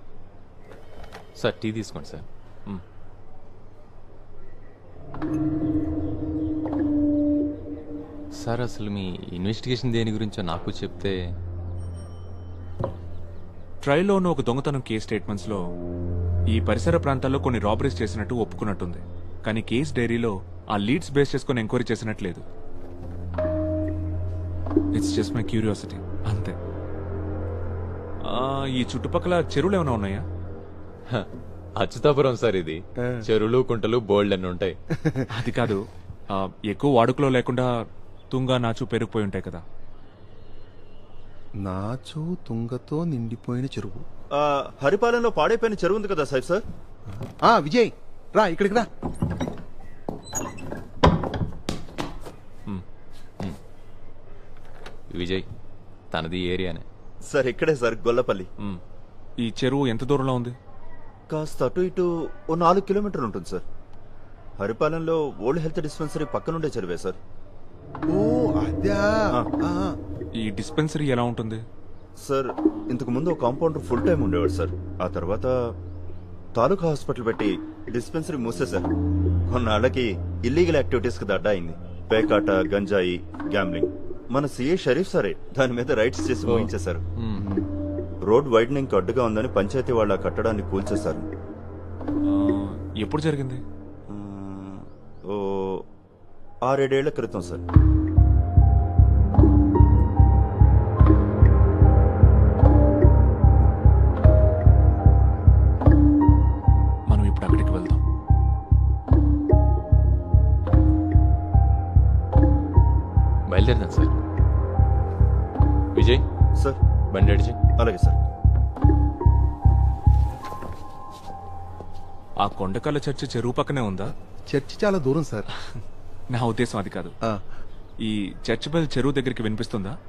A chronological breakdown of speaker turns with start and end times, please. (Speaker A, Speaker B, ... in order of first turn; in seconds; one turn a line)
Speaker A: 1.4-2.8
Speaker A: 8.3-11.1
Speaker B: 13.8-15.6
Speaker B: 16.5-22.4
Speaker B: 24.9-26.6
Speaker B: 28.2-30.2
Speaker A: 31.1-34.8
Speaker C: 33.0-33.2
Speaker C: 34.9-35.2
Speaker B: 35.3-37.7
Speaker B: 38.3-39.6
Speaker C: 41.6-44.0
Speaker D: 44.3-46.6
Speaker C: 47.3-48.9
Speaker A: 55.1-55.5
Speaker A: 56.1-56.8
Speaker D: 57.3-58.5
Speaker B: 59.4-60.5
Speaker D: 61.3-63.6
Speaker D: 64.6-67.2
Speaker C: 68.1-70.0
Speaker B: 70.4-71.6
Speaker D: 72.2-75.5
Speaker D: 76.5-78.9
Speaker D: 79.5-87.0
Speaker A: 86.4-87.4
Speaker C: 87.4-87.7
Speaker D: 88.2-91.2
Speaker B: 92.2-93.6
Speaker D: 94.1-95.8
Speaker D: 96.6-97.6
Speaker B: 107.1-108.0
Speaker A: 113.5-114.2
Speaker A: 115.9-116.2
Speaker A: 117.1-117.6
Speaker D: 117.8-118.2
Speaker B: 122.4-124.1
Speaker C: 124.5-125.5
Speaker B: 126.3-127.1
Speaker B: 128.0-129.9